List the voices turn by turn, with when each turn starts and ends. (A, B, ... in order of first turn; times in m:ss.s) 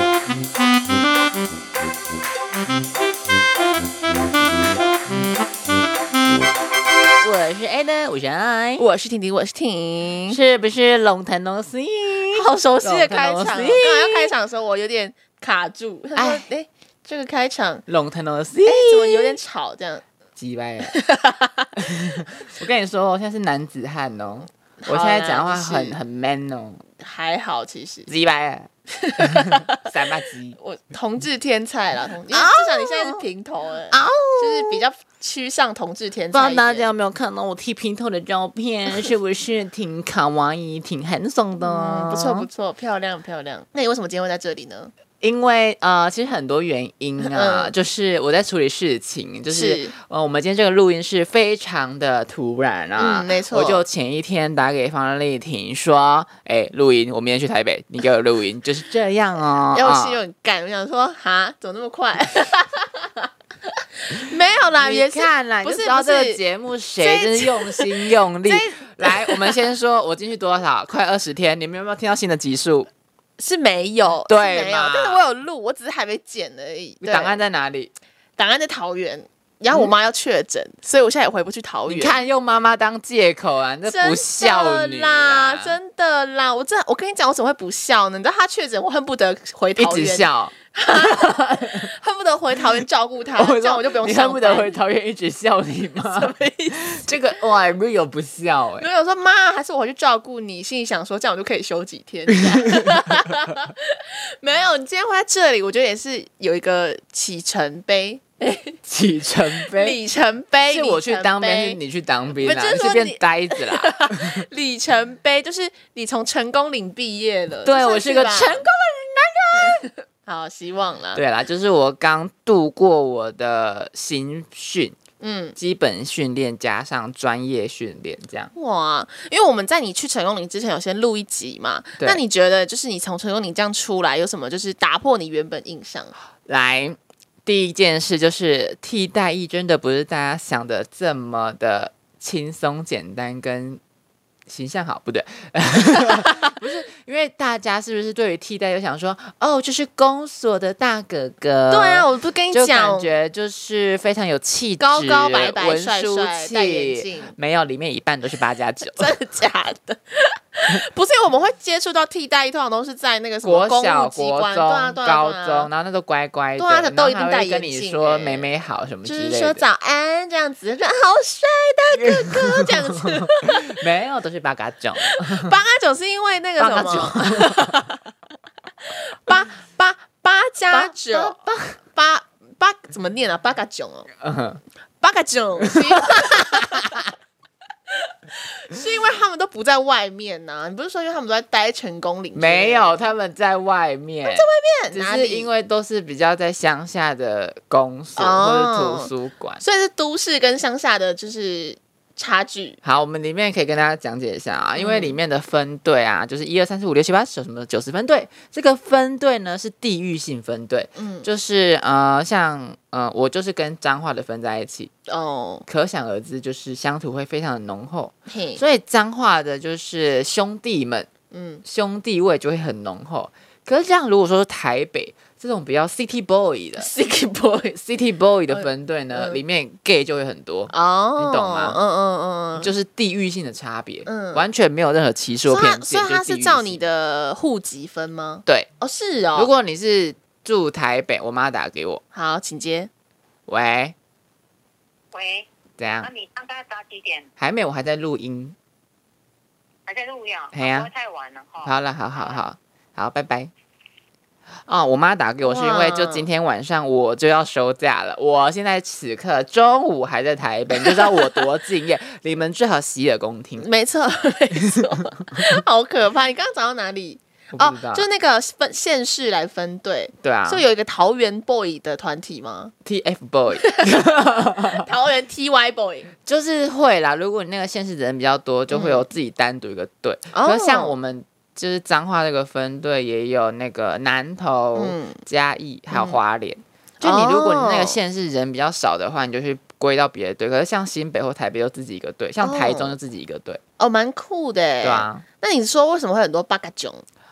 0:07.2-0:08.8 A
0:08.8-0:10.4 B
0:10.3-0:14.3 A
0:12.3-0:17.8 B
0:16.2-0:16.4 A
0:17.8-0:19.4 A
0:18.6-0:20.0 B
0:20.4-0:21.0 A
0:20.9-0:21.7 B
0:21.8-0:26.8 A
0:24.8-0:26.0 B
0:27.0-0:28.1 B
0:28.1-0:30.6 A
0:29.0-0:29.9 B
0:30.6-0:36.9 B
0:32.3-0:33.2 A
0:33.9-0:34.8 A
0:36.3-0:42.5 A
0:41.6-0:44.9 B
0:45.2-1:00.2 A
0:47.2-0:47.7 B
0:49.5-0:49.9 B
0:53.0-0:53.8 B
0:59.7-1:06.4 B
1:04.8-1:12.9 A
1:07.0-1:09.6 B
1:13.4-1:17.4 B
1:14.2-1:15.2 A
1:17.0-1:17.9 A
1:18.4-1:22.2 B
1:21.9-1:25.8 A
1:23.8-1:34.7 B
1:29.8-1:31.9 A
1:33.4-1:38.9 A
1:36.0-1:37.0 B
1:38.8-1:48.8 B
1:42.5-1:43.3 A
1:48.8-1:50.0 A
1:49.6-1:51.8 B
1:50.7-1:54.4 A
1:52.4-1:58.6 B
1:57.6-1:59.8 A
1:59.5-2:01.2 B
2:01.1-2:05.0 A
2:05.2-2:05.6 B
2:05.6-2:08.5 A
2:08.5-2:16.1 B
2:16.4-2:23.8 A
2:24.5-2:39.1 A
2:26.0-2:26.5 B
2:31.7-2:33.1 B
2:34.8-2:37.3 B
2:38.8-2:45.7 B
2:43.4-2:49.6 A
2:46.6-2:48.5 B
2:49.0-2:53.8 B
2:52.0-2:55.5 A
2:55.0-2:58.0 B
2:56.6-2:57.8 A
2:58.9-3:01.4 B
3:00.7-3:01.8 A
3:01.9-3:04.1 B
3:04.2-3:04.6 A
3:05.0-3:07.0 B
3:05.7-3:07.1 A
3:08.1-3:13.1 B
3:12.3-3:19.6 A
3:14.2-3:15.5 B
3:18.2-3:22.8 B
3:22.8-3:34.9 A
3:24.8-3:25.2 B
3:31.0-3:31.3 B
3:35.1-3:35.6 B
3:35.7-3:41.1 A
3:38.3-3:38.6 B
3:41.3-3:41.6 B
3:41.6-3:46.9 A
3:46.8-3:47.8 B
3:47.8-3:51.8 A
3:48.5-3:49.4 B
3:50.7-3:52.7 B
3:52.6-3:56.8 A
3:54.0-3:54.4 B
3:55.4-3:59.5 B
3:59.3-4:02.0 A
4:02.1-4:02.9 B
4:03.5-4:03.9 A
4:05.1-4:05.5 C
4:05.8-4:06.1 A
4:06.0-4:07.3 C
4:07.4-4:08.6 A
4:09.9-4:12.4 C
4:10.5-4:10.9 A
4:11.6-4:13.5 A
4:14.6-4:23.7 A
4:15.4-4:16.2 B
4:20.7-4:21.4 B
4:23.6-4:32.7 B
4:27.5-4:28.0 A
4:30.2-4:30.6 A
4:32.8-4:34.9 A
4:33.6-4:33.9 B
4:34.7-4:36.1 B
4:36.2-4:53.6 A
4:38.7-4:39.0 B
4:40.3-4:40.9 B
4:44.7-4:45.2 B
4:45.9-4:46.2 B
4:47.0-4:48.0 B
4:52.4-4:53.0 B
4:53.8-4:57.0 B
4:54.8-4:55.2 A